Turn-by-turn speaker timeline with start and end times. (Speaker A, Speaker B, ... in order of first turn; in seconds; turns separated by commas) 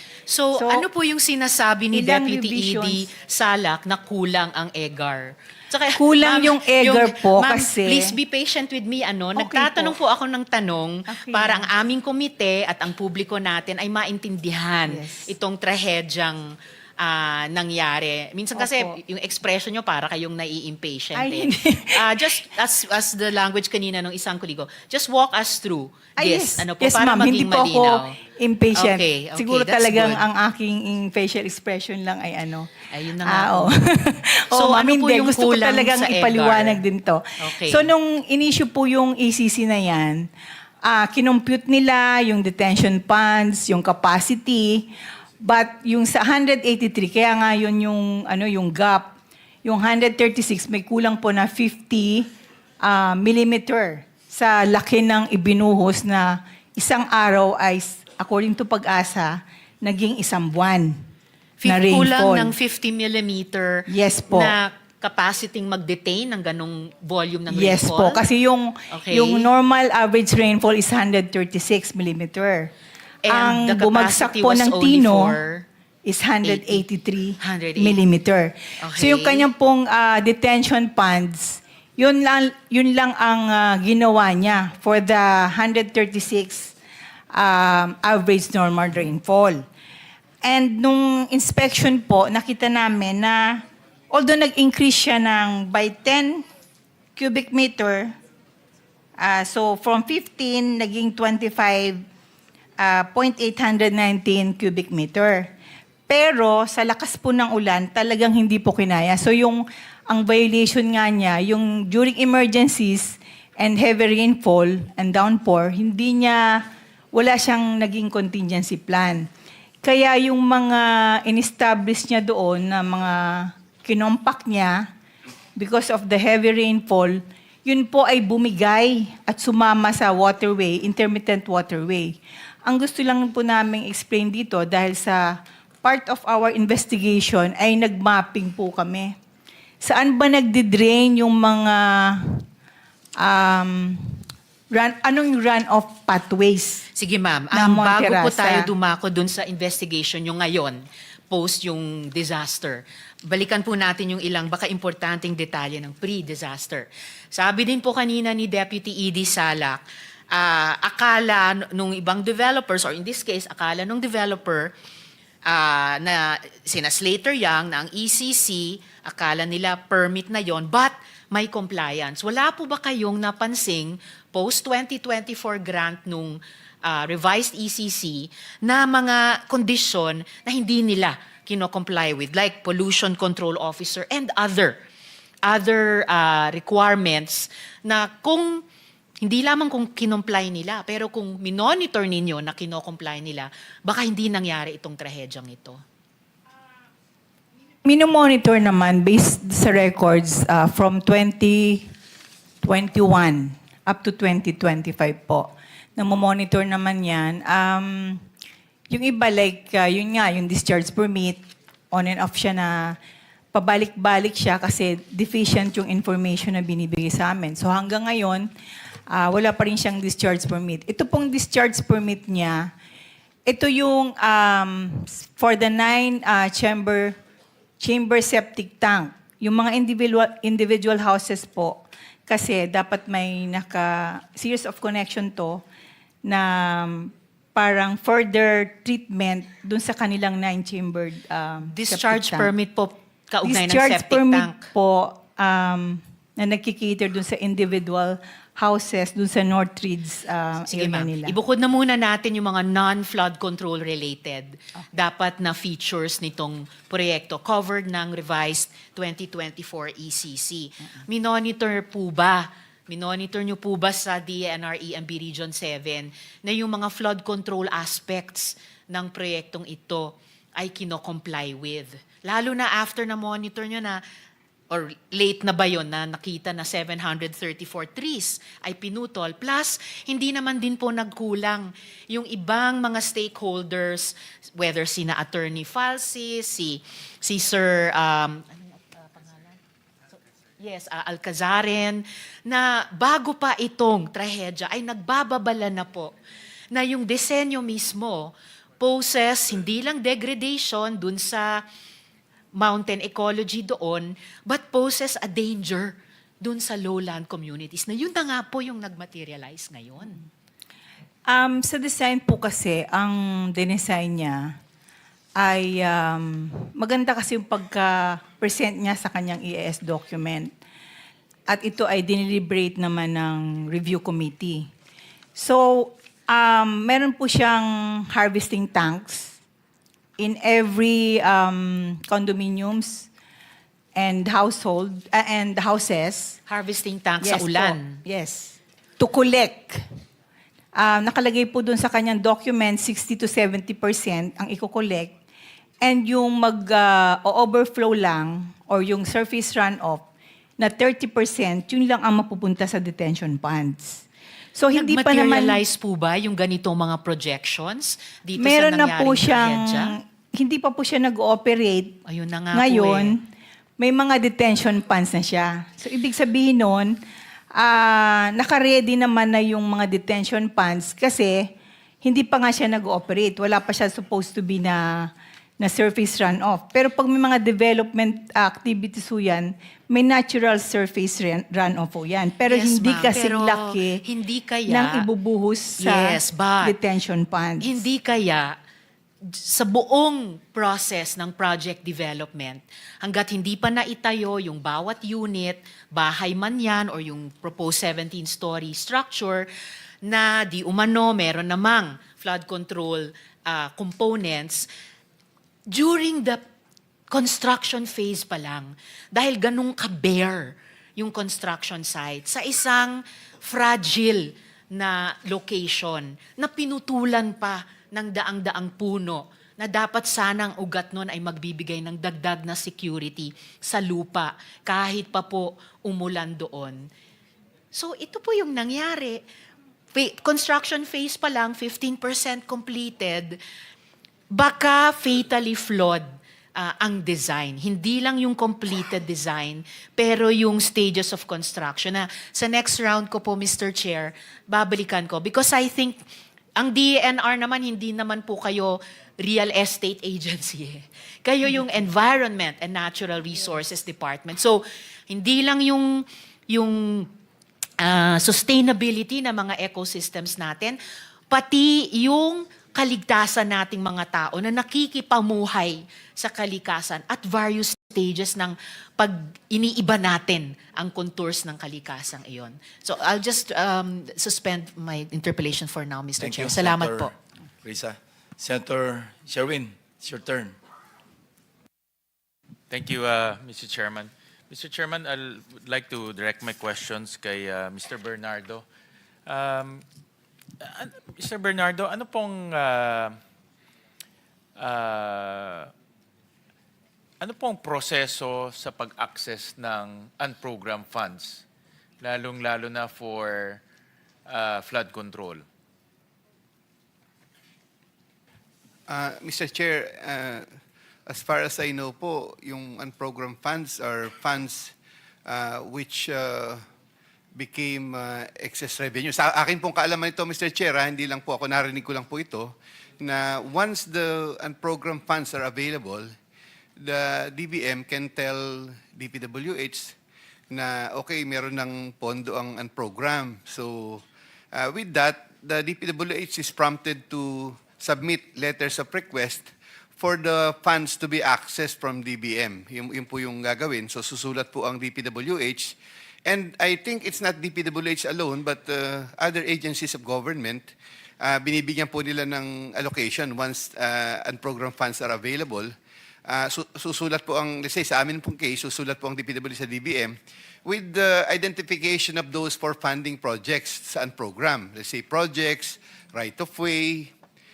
Speaker A: 0.3-28.2, Speaker B: 0.5-0.9, Speaker B: 1.9-3.1, Speaker B: 6.0-8.2, Speaker B: 9.3-9.9, Speaker B: 11.1-11.7, Speaker B: 14.9-15.3, Speaker B: 18.6-19.0, Speaker B: 21.1-22.4, Speaker B: 26.2-40.3, Speaker A: 28.7-30.2, Speaker A: 32.9-33.7, Speaker A: 34.5-36.8, Speaker A: 37.4-37.9, Speaker B: 40.8-52.3, Speaker B: 52.8-61.1, Speaker A: 61.6-68.2, Speaker B: 61.6-62.5, Speaker B: 63.9-64.5, Speaker B: 67.5-72.7, Speaker A: 68.9-69.5, Speaker A: 73.2-75.7, Speaker B: 73.3-75.3, Speaker B: 76.0-86.7, Speaker A: 76.4-76.8, Speaker A: 77.4-78.0, Speaker A: 78.8-79.5, Speaker B: 87.3-89.7, Speaker B: 90.4-96.5, Speaker B: 97.2-98.1, Speaker B: 99.2-102.0, Speaker B: 102.8-105.5, Speaker B: 106.1-119.3, Speaker B: 119.8-124.9, Speaker B: 125.5-139.2, Speaker B: 139.8-142.4, Speaker B: 143.2-146.9, Speaker A: 146.9-159.8, Speaker B: 147.5-148.7, Speaker A: 160.3-164.7, Speaker A: 165.4-184.8, Speaker A: 185.4-188.6, Speaker A: 189.2-195.8, Speaker B: 197.8-201.9, Speaker B: 202.6-208.2, Speaker B: 208.9-213.0, Speaker B: 213.5-218.5, Speaker B: 219.1-222.7, Speaker B: 223.4-227.2, Speaker B: 227.8-235.6, Speaker B: 236.2-242.5, Speaker A: 241.7-244.7, Speaker B: 243.4-251.3, Speaker A: 250.7-274.0, Speaker A: 274.7-289.6, Speaker A: 290.6-296.1, Speaker A: 296.7-301.6, Speaker A: 302.5-310.2, Speaker B: 311.3-314.6, Speaker B: 315.4-320.5, Speaker B: 321.5-324.7, Speaker B: 325.4-329.4, Speaker B: 330.2-333.1, Speaker B: 333.9-336.4, Speaker A: 336.5-338.0, Speaker B: 337.2-339.8, Speaker B: 340.7-345.1, Speaker B: 345.8-350.1, Speaker B: 350.6-355.6, Speaker A: 354.7-359.9, Speaker B: 358.4-362.0, Speaker A: 362.1-363.1, Speaker B: 362.5-363.2, Speaker B: 363.8-367.0, Speaker B: 367.5-371.5, Speaker B: 372.0-384.0, Speaker A: 382.5-385.1, Speaker B: 384.7-387.7, Speaker A: 385.8-386.8, Speaker A: 387.6-388.6, Speaker A: 389.2-399.5, Speaker A: 400.0-404.7, Speaker A: 405.7-406.4, Speaker A: 407.1-426.9, Speaker A: 427.7-429.2, Speaker A: 429.9-433.4, Speaker A: 434.3-446.0, Speaker A: 446.6-457.1, Speaker A: 457.8-460.8, Speaker A: 461.3-477.1, Speaker C: 476.2-480.5, Speaker D: 482.7-488.6, Speaker D: 489.2-489.8, Speaker D: 490.6-493.2, Speaker D: 494.6-495.7, Speaker D: 497.2-501.4, Speaker D: 502.0-503.6, Speaker D: 504.3-505.4, Speaker E: 508.9-510.5, Speaker E: 511.1-514.7, Speaker E: 515.2-516.6, Speaker E: 517.3-526.1, Speaker E: 526.8-530.0, Speaker E: 530.5-555.7, Speaker E: 556.2-567.1